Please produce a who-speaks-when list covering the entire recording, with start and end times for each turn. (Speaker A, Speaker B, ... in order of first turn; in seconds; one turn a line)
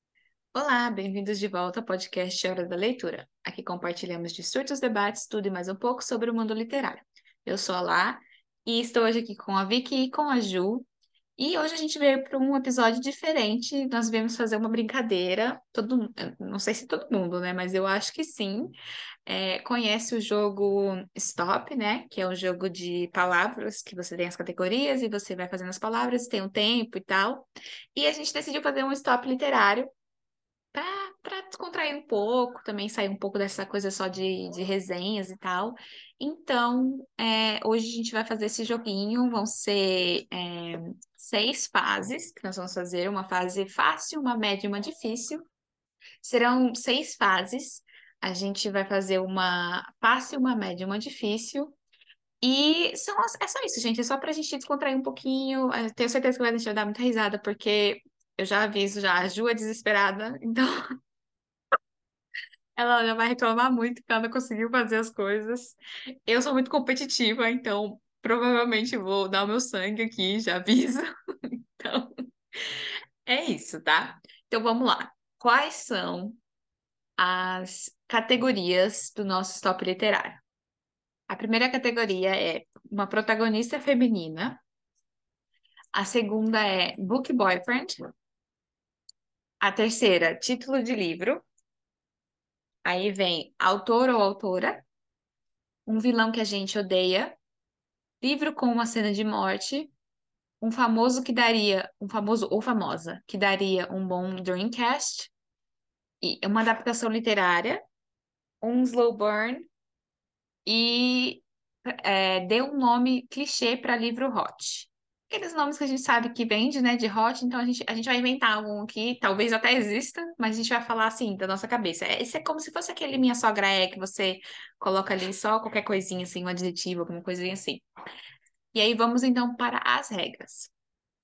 Speaker A: 0.5-10.9
Speaker A: 11.4-18.8
Speaker A: 19.3-29.9
Speaker A: 30.7-45.5
Speaker A: 46.2-51.8
Speaker A: 52.4-60.8
Speaker A: 62.8-76.4
Speaker A: 77.2-80.4
Speaker A: 81.3-84.6
Speaker A: 85.9-88.0
Speaker A: 89.6-91.5
Speaker A: 92.8-94.8
Speaker A: 95.9-97.4
Speaker A: 98.2-99.9
Speaker A: 100.6-105.3
Speaker A: 106.2-107.8
Speaker A: 108.6-109.7
Speaker A: 110.7-127.8
Speaker A: 128.7-130.7